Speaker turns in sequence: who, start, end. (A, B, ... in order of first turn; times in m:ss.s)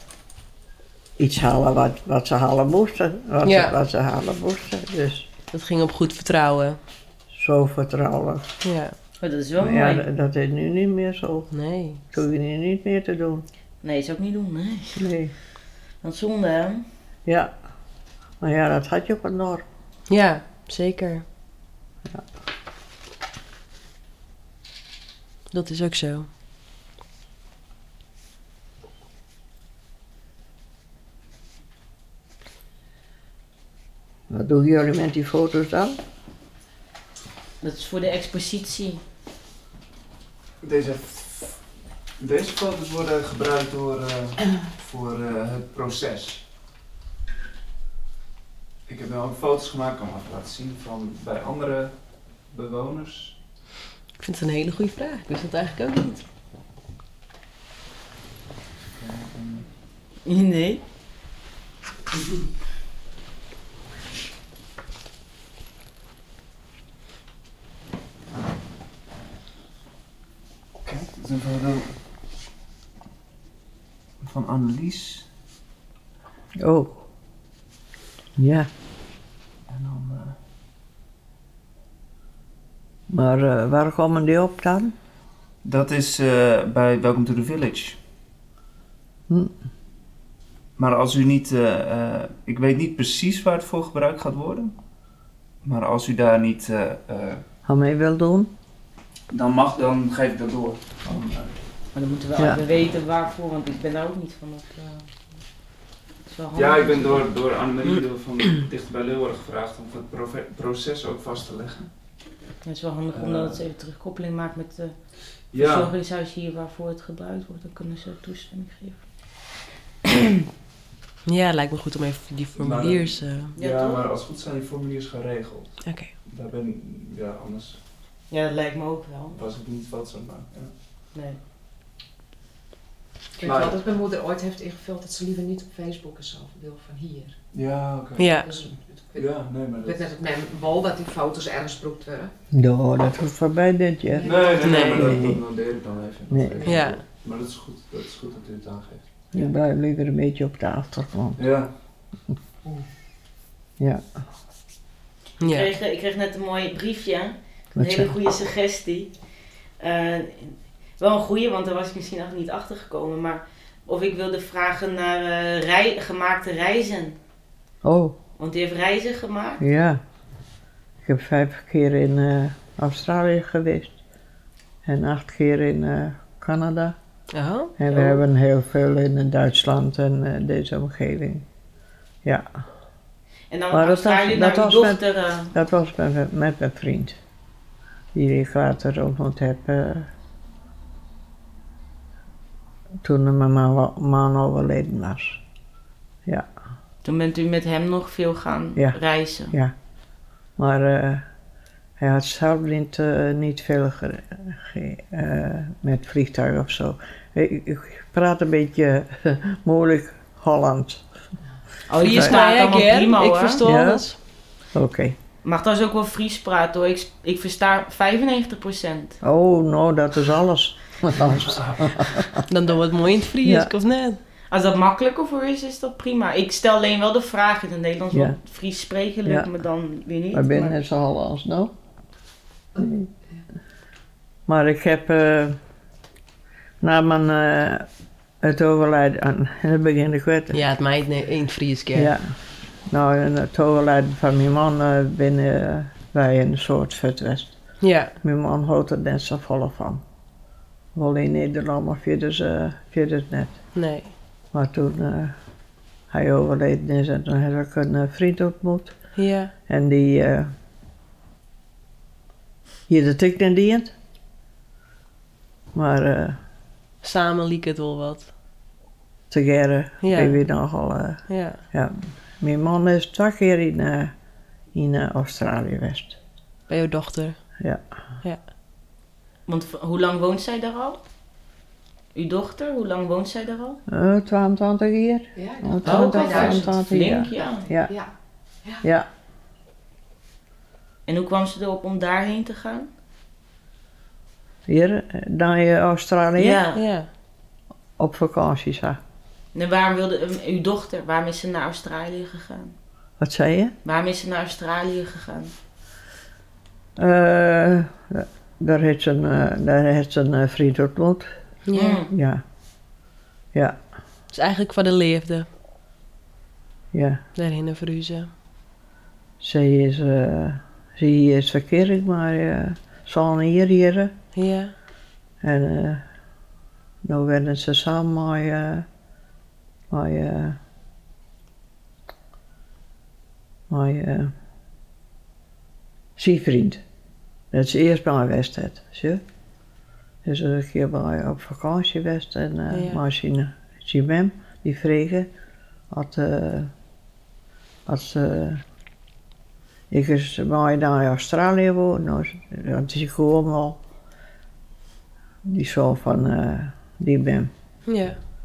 0:01.2-0:05.3 A
0:03.4-0:03.7 B
0:05.5-0:06.8 B
0:07.3-0:08.5 A
0:08.6-0:09.0 B
0:09.2-0:10.0 C
0:09.6-0:11.5 A
0:11.5-0:12.0 B
0:12.1-0:13.4 A
0:13.8-0:15.1 C
0:15.0-0:15.3 A
0:16.0-0:16.8 C
0:17.3-0:17.5 A
0:18.4-0:19.6 A
0:20.1-0:21.2 B
0:25.5-0:26.3 B
0:34.3-0:36.0 A
0:37.6-0:39.0 C
0:40.6-0:41.6 D
0:42.2-0:46.4 D
0:48.9-0:52.0 D
0:52.5-0:53.4 D
0:54.2-0:56.2 B
0:58.9-0:59.7 D
1:00.2-1:00.8 C
1:10.8-1:11.9 D
1:14.2-1:15.3 D
1:16.6-1:17.0 A
1:18.4-1:18.7 A
1:19.7-1:20.4 D
1:23.1-1:25.0 A
1:25.6-1:28.0 D
1:30.8-1:34.7 D
1:35.6-1:37.4 D
1:37.7-1:38.5 A
1:39.3-1:41.3 D
1:41.1-1:41.4 A
1:42.0-1:45.1 C
1:46.3-1:47.3 C
1:46.6-1:51.9 D
1:52.6-1:55.0 C
1:53.1-1:53.6 D
1:55.5-1:55.9 D
1:55.5-1:59.1 C
2:01.3-2:03.5 B
2:02.6-2:07.8 D
2:03.6-2:04.1 C
2:05.8-2:06.1 B
2:08.3-2:09.4 C
2:09.3-2:10.7 D
2:11.1-2:11.4 C
2:13.4-2:17.4 E
2:13.4-2:13.8 D
2:17.5-2:18.5 D
2:18.2-2:18.5 B
2:18.4-2:19.3 E
2:19.2-2:20.1 D
2:19.8-2:22.3 E
2:22.5-2:25.4 A
2:24.1-2:25.1 E
2:24.2-2:29.0 D
2:24.6-2:25.2 B
2:26.3-2:26.9 A
2:26.6-2:27.0 B
2:29.3-2:31.5 A
2:31.4-2:31.7 D
2:35.4-2:35.7 B
2:35.4-2:39.1 C
2:37.8-2:38.1 A
2:39.8-2:47.2 C
2:47.8-2:48.2 A
2:48.4-2:49.6 C
2:49.6-2:50.0 A
2:51.0-2:54.0 A
2:54.8-2:57.0 A
2:57.3-2:57.7 B
2:57.8-3:01.4 A
2:57.9-2:58.2 C
3:03.5-3:05.5 C
3:03.7-3:07.2 A
3:08.1-3:10.1 A
3:13.0-3:15.4 A
3:17.0-3:19.6 C
3:20.6-3:21.2 A
3:22.0-3:31.0 A
3:31.9-3:33.6 C
3:32.0-3:34.2 B
3:33.6-3:34.1 A
3:34.7-3:35.2 A
3:35.4-3:39.2 C
3:39.2-3:42.4 A
3:42.5-3:44.2 B
3:43.4-3:43.7 A
3:44.5-3:50.8 C
3:48.1-3:48.4 A
3:50.3-3:51.7 A
3:52.8-3:53.1 A
3:54.5-3:55.6 A
3:56.8-3:57.9 A
3:58.4-4:00.6 A
4:00.5-4:02.1 B
4:01.9-4:02.3 A
4:02.9-4:07.6 A
4:07.8-4:08.1 B
4:08.2-4:10.0 A
4:11.0-4:13.6 A
4:13.8-4:14.1 B
4:14.5-4:15.3 A
4:16.1-4:19.0 A
4:19.2-4:19.5 B
4:19.7-4:20.5 A
4:22.9-4:23.9 A
4:25.7-4:26.4 A
4:27.0-4:28.3 B
4:29.3-4:34.1 A
4:30.0-4:30.4 B
4:31.3-4:31.6 B
4:34.7-4:36.2 A
4:36.7-4:37.4 B
4:39.5-4:41.0 C
4:42.1-4:43.8 C
4:43.9-4:47.9 A
4:45.4-4:46.8 E
4:45.8-4:47.7 C
4:51.1-4:52.9 C
4:54.7-4:56.6 A
4:56.4-4:56.8 C
4:56.8-4:57.1 B
4:58.0-4:59.0 A
4:59.5-5:02.8 C
5:03.2-5:03.7 A
5:03.8-5:05.5 C
5:07.0-5:11.3 A
5:11.7-5:12.0 B
5:11.7-5:12.1 C
5:12.1-5:12.4 A
5:13.5-5:13.8 A
5:14.3-5:15.5 B
5:16.9-5:17.2 A
5:17.4-5:18.3 B
5:19.4-5:24.1 A
5:24.3-5:24.7 B
5:25.4-5:26.0 A
5:27.0-5:28.9 A
5:29.9-5:30.6 A
5:33.7-5:34.3 A
5:36.2-5:36.8 A
5:37.5-5:39.2 A
5:40.2-5:45.3 A
5:42.7-5:43.0 B
5:45.9-5:46.7 A
5:47.9-5:48.6 A
5:49.9-5:53.8 A
5:55.4-5:57.5 A
5:57.9-5:58.2 B